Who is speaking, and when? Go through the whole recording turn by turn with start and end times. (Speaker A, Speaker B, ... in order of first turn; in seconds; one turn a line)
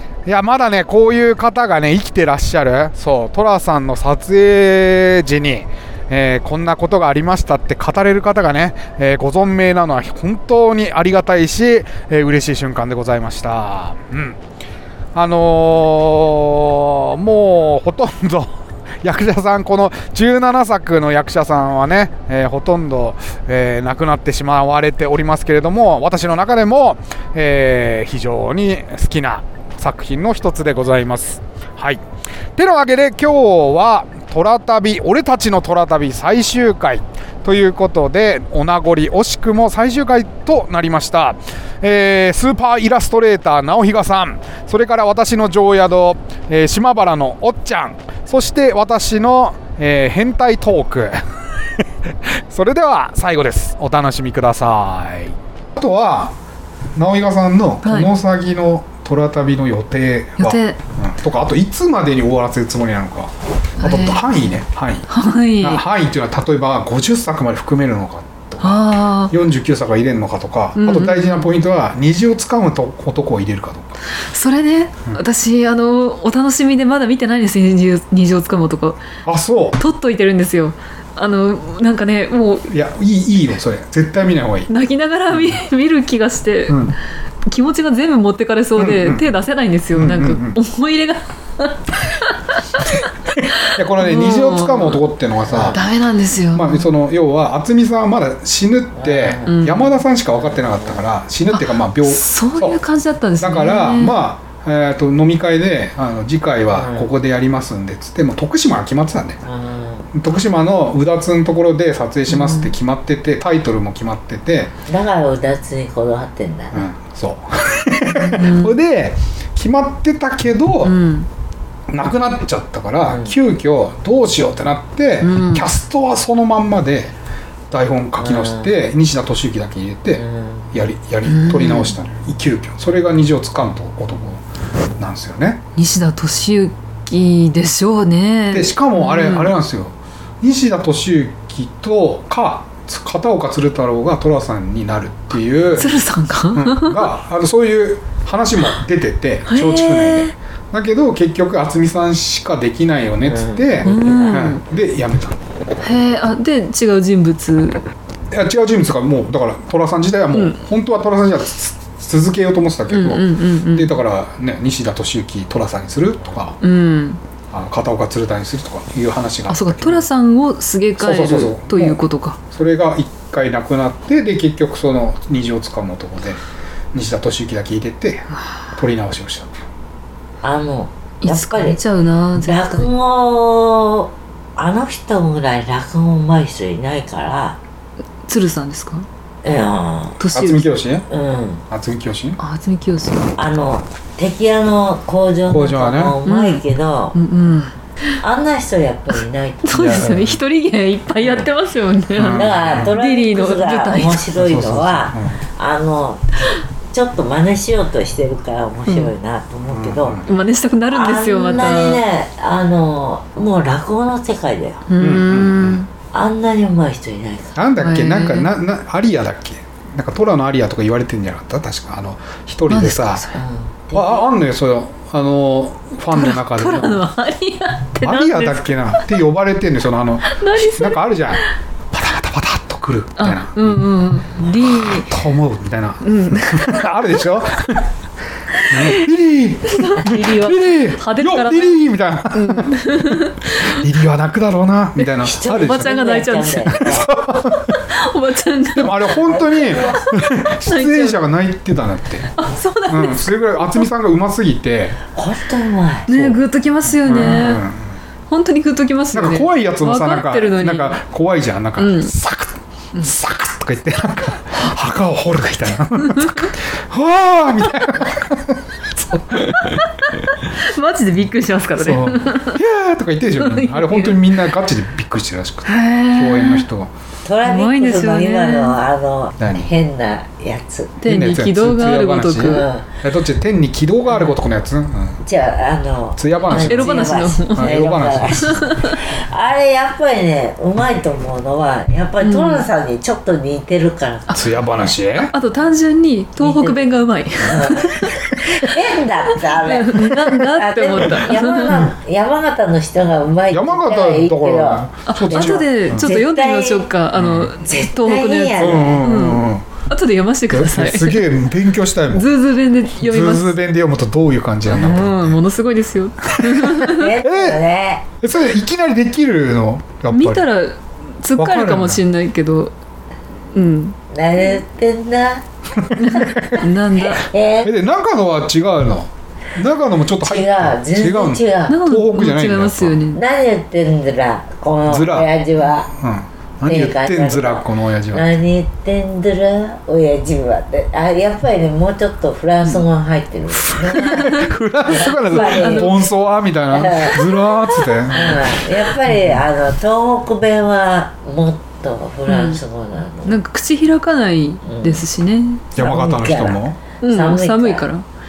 Speaker A: 0.2-14.4
Speaker A: 15.1-32.0
Speaker A: 32.6-51.2
Speaker A: 52.1-56.4
Speaker A: 57.0-65.1
Speaker B: 57.8-58.1
Speaker B: 60.4-60.8
Speaker B: 63.8-64.3
Speaker B: 65.1-65.8
Speaker A: 65.6-74.0
Speaker B: 68.6-69.3
Speaker B: 70.8-71.5
Speaker B: 74.3-79.0
Speaker A: 79.2-79.8
Speaker B: 79.8-82.7
Speaker A: 82.7-84.7
Speaker B: 84.7-86.9
Speaker A: 85.3-85.6
Speaker A: 86.7-87.0
Speaker B: 87.5-93.0
Speaker A: 88.8-89.2
Speaker A: 89.9-90.6
Speaker A: 93.3-95.8
Speaker B: 93.6-95.0
Speaker C: 95.5-95.8
Speaker B: 95.7-96.9
Speaker A: 96.5-102.8
Speaker C: 99.0-99.6
Speaker B: 99.5-99.9
Speaker C: 100.4-101.0
Speaker B: 101.5-104.2
Speaker A: 103.4-109.4
Speaker C: 106.7-107.1
Speaker C: 109.5-110.1
Speaker A: 110.1-114.7
Speaker B: 112.3-112.7
Speaker C: 114.9-116.8
Speaker A: 116.7-121.0
Speaker B: 118.1-118.8
Speaker B: 120.8-121.3
Speaker A: 121.9-127.2
Speaker C: 123.1-123.3
Speaker B: 125.2-125.7
Speaker A: 127.7-134.4
Speaker C: 128.2-128.7
Speaker C: 130.2-130.7
Speaker B: 131.3-131.9
Speaker A: 135.0-135.6
Speaker B: 135.8-139.5
Speaker A: 138.5-146.0
Speaker B: 145.8-147.1
Speaker A: 146.5-155.4
Speaker B: 149.5-150.3
Speaker C: 153.3-154.5
Speaker B: 153.8-154.6
Speaker B: 155.8-157.8
Speaker A: 158.3-166.6
Speaker B: 160.3-160.6
Speaker B: 162.9-163.9
Speaker B: 166.6-167.2
Speaker A: 167.5-170.1
Speaker B: 169.5-172.4
Speaker A: 171.0-172.0
Speaker A: 172.5-176.4
Speaker A: 176.9-179.5
Speaker C: 180.4-181.8
Speaker B: 181.2-182.9
Speaker C: 182.4-187.6
Speaker B: 188.3-189.1
Speaker C: 189.4-190.2
Speaker B: 190.2-190.7
Speaker A: 190.3-191.1
Speaker C: 191.1-191.6
Speaker A: 191.7-192.4
Speaker B: 192.4-193.3
Speaker C: 193.4-197.2
Speaker A: 195.5-196.2
Speaker B: 196.3-196.6
Speaker B: 197.2-198.2
Speaker C: 198.2-200.1
Speaker B: 199.6-204.3
Speaker A: 199.7-200.4
Speaker A: 202.1-202.9
Speaker C: 202.3-206.4
Speaker A: 204.3-205.4
Speaker C: 206.9-210.2
Speaker B: 208.9-209.1
Speaker A: 209.7-210.3
Speaker B: 210.3-212.0
Speaker C: 210.9-214.8
Speaker B: 214.9-215.9
Speaker A: 215.0-215.8
Speaker C: 216.1-217.6
Speaker A: 217.6-223.3
Speaker B: 217.8-218.5
Speaker B: 222.7-223.4
Speaker C: 223.3-224.3
Speaker A: 223.9-227.0
Speaker B: 226.1-228.8
Speaker A: 228.0-233.8
Speaker B: 230.3-231.4
Speaker B: 233.2-235.2
Speaker A: 234.5-237.9
Speaker B: 236.0-236.9
Speaker B: 238.6-239.1
Speaker A: 238.7-245.9
Speaker B: 239.7-241.8
Speaker B: 242.3-243.8
Speaker B: 245.0-249.2
Speaker C: 245.2-247.1
Speaker A: 246.8-247.8
Speaker A: 248.8-252.3
Speaker C: 249.2-250.0
Speaker B: 250.7-251.2
Speaker B: 252.4-253.9
Speaker A: 252.9-255.0
Speaker C: 255.1-256.1
Speaker B: 256.1-257.6
Speaker A: 257.0-257.9
Speaker B: 258.3-261.0
Speaker A: 259.1-269.9
Speaker B: 261.8-262.1
Speaker B: 266.0-266.5
Speaker B: 269.6-272.6
Speaker A: 271.8-276.9
Speaker B: 273.4-274.2
Speaker B: 275.7-276.7
Speaker C: 277.2-280.9
Speaker B: 277.4-278.8
Speaker A: 279.4-279.7
Speaker B: 281.0-282.7
Speaker A: 281.0-285.2
Speaker C: 282.4-282.9
Speaker C: 284.1-284.4
Speaker C: 285.2-294.9
Speaker A: 286.2-288.7
Speaker B: 286.5-287.8
Speaker B: 288.3-289.0
Speaker B: 292.2-292.7
Speaker B: 294.3-294.6
Speaker A: 294.4-295.3
Speaker B: 295.2-298.8
Speaker C: 296.4-306.9
Speaker B: 299.3-301.9
Speaker A: 303.5-306.1
Speaker B: 305.1-311.3
Speaker A: 307.1-307.5
Speaker C: 307.6-309.1
Speaker A: 308.6-309.7
Speaker A: 310.5-312.3
Speaker B: 312.1-313.6
Speaker A: 313.0-315.4
Speaker B: 314.7-317.1
Speaker A: 316.3-317.6
Speaker C: 316.9-318.1
Speaker A: 318.2-320.4
Speaker B: 320.1-322.7
Speaker A: 321.4-322.0
Speaker B: 323.5-324.0
Speaker C: 324.1-325.4
Speaker A: 325.8-326.6
Speaker B: 326.0-327.3
Speaker C: 326.0-326.3
Speaker C: 327.0-327.7
Speaker A: 327.6-333.0
Speaker C: 330.2-331.8
Speaker B: 331.7-333.2
Speaker C: 333.1-335.9
Speaker A: 334.9-335.3
Speaker A: 335.9-338.3
Speaker C: 336.7-346.0
Speaker A: 343.6-349.4
Speaker B: 344.1-344.5
Speaker B: 345.1-346.1
Speaker C: 346.7-347.2
Speaker C: 348.1-353.4
Speaker B: 352.3-352.6
Speaker B: 353.2-355.7
Speaker C: 354.6-355.0
Speaker A: 355.8-356.8
Speaker C: 355.8-357.9
Speaker B: 357.0-358.1